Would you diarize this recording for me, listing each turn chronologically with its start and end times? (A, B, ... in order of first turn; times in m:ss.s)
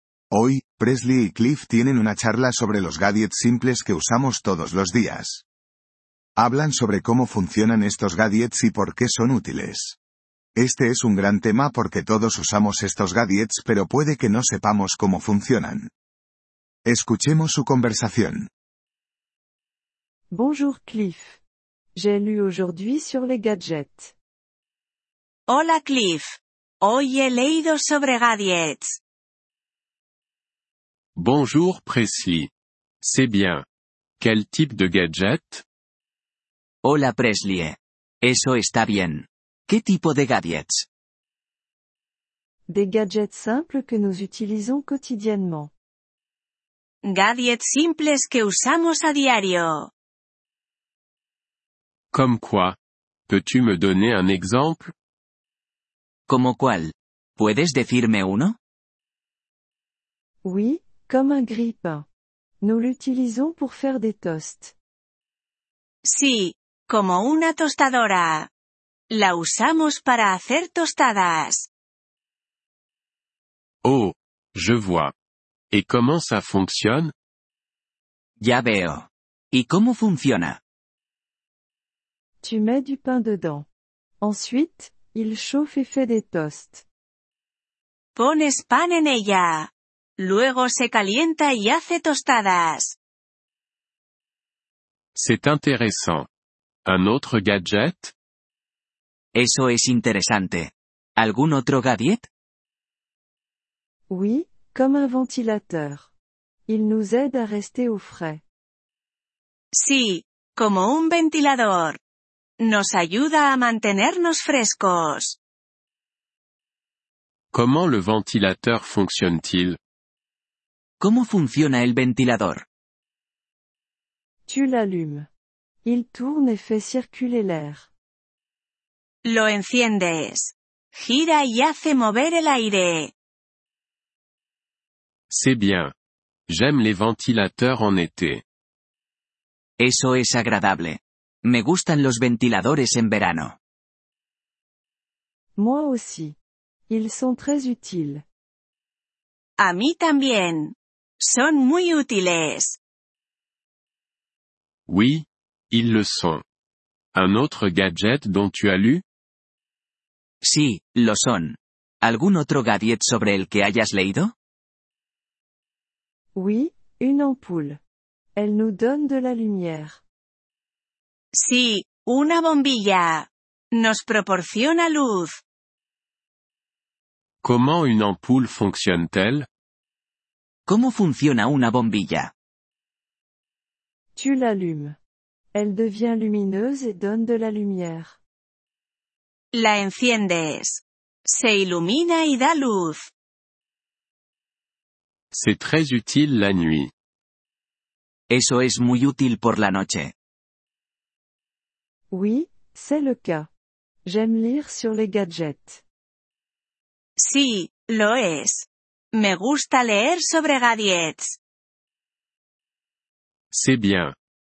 0:00.3-0:05.4 A
0:06.4-0:10.0 A
0:10.6-0:15.9 A
0:16.9-0:18.5 A
0:20.3-0:21.4 B
0:22.0-0:24.2 B
0:25.5-0:29.0 C
0:31.2-0:32.5 D
0:33.0-0:33.6 D
0:34.2-0:35.6 D
0:36.8-0:40.9 E
0:42.7-0:45.7 B
0:47.0-0:49.9 C
0:52.1-0:54.9 D
0:56.3-0:58.6 E
1:00.4-1:02.1 B
1:02.6-1:04.8 B
1:06.0-1:08.5 C
1:09.1-1:11.7 C
1:13.8-1:15.1 D
1:15.7-1:17.1 D
1:18.4-1:20.6 E
1:22.4-1:23.7 B
1:24.2-1:26.8 B
1:28.2-1:33.0 C
1:35.2-1:36.3 D
1:36.9-1:38.1 D
1:39.4-1:42.3 E
1:44.1-1:46.1 B
1:46.7-1:48.4 B
1:49.7-1:52.0 C
1:52.6-1:55.4 C
1:57.5-1:59.8 D
2:01.0-2:02.6 E
2:04.5-2:05.3 B
2:05.8-2:07.9 B
2:09.2-2:13.1 C
2:15.3-2:15.9 D
2:16.5-2:18.4 D
2:19.8-2:23.6 E
2:25.6-2:26.4 B
2:26.9-2:28.2 B
2:29.6-2:32.8 C
2:34.9-2:36.4 D
2:37.1-2:39.0 D
2:40.4-2:44.3 E
2:46.4-2:47.8 B
2:48.4-2:50.0 B
2:51.3-2:55.4 C
2:57.4-2:59.5 D
3:00.7-3:02.3 E
3:04.2-3:05.0 B
3:05.5-3:08.2 B
3:09.5-3:13.1 C
3:15.3-3:16.9 D
3:18.3-3:20.1 E
3:22.1-3:23.5 B
3:24.0-3:25.8 B
3:27.2-3:31.4 C
3:33.5-3:34.2 D